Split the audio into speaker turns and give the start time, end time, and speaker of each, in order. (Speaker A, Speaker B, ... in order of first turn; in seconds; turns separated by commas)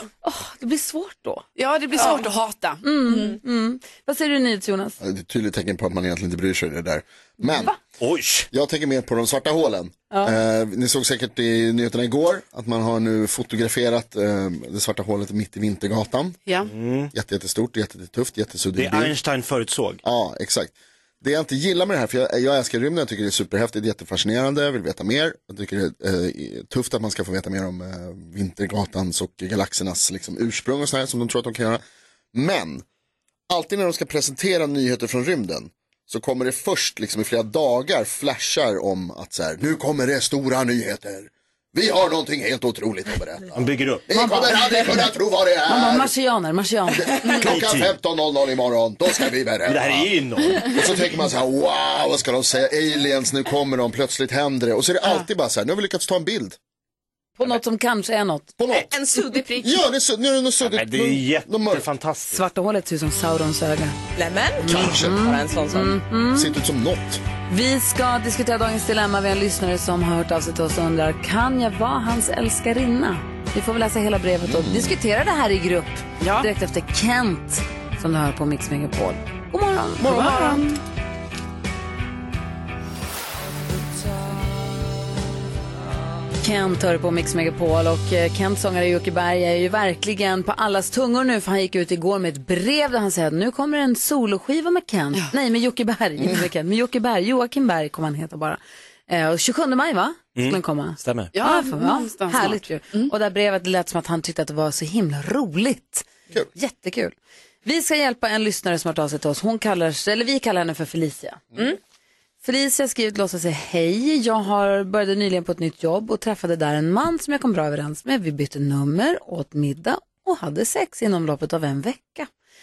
Speaker A: 0.2-1.5, Speaker B: 1.6-3.3, Speaker A: 2.8-5.0, Speaker C: 5.0-7.7, Speaker A: 7.4-7.7, Speaker D: 8.0-8.5, Speaker C: 8.5-16.4, Speaker D: 16.6-17.1, Speaker C: 17.1-19.1, Speaker D: 18.8-20.0, Speaker C: 20.0-31.8, Speaker C: 32.3-32.8, Speaker C: 33.5-46.1, Speaker D: 43.5-44.1, Speaker A: 44.1-45.0, Speaker A: 45.7-47.3, Speaker C: 46.9-56.6, Speaker D: 47.4-47.9, Speaker D: 49.6-50.8, Speaker A: 57.4-58.5, Speaker C: 58.6-58.9, Speaker E: 58.7-59.8, Speaker C: 59.6-61.9, Speaker D: 60.6-62.4, Speaker A: 62.3-63.9, Speaker E: 64.2-66.0, Speaker A: 64.6-66.5, Speaker C: 64.6-65.2, Speaker C: 66.3-67.2, Speaker A: 67.5-80.7, Speaker C: 74.4-75.0, Speaker B: 76.2-76.5, Speaker B: 80.0-80.8, Speaker A: 86.4-111.6, Speaker D: 100.3-101.3, Speaker B: 101.3-103.1, Speaker A: 112.4-122.3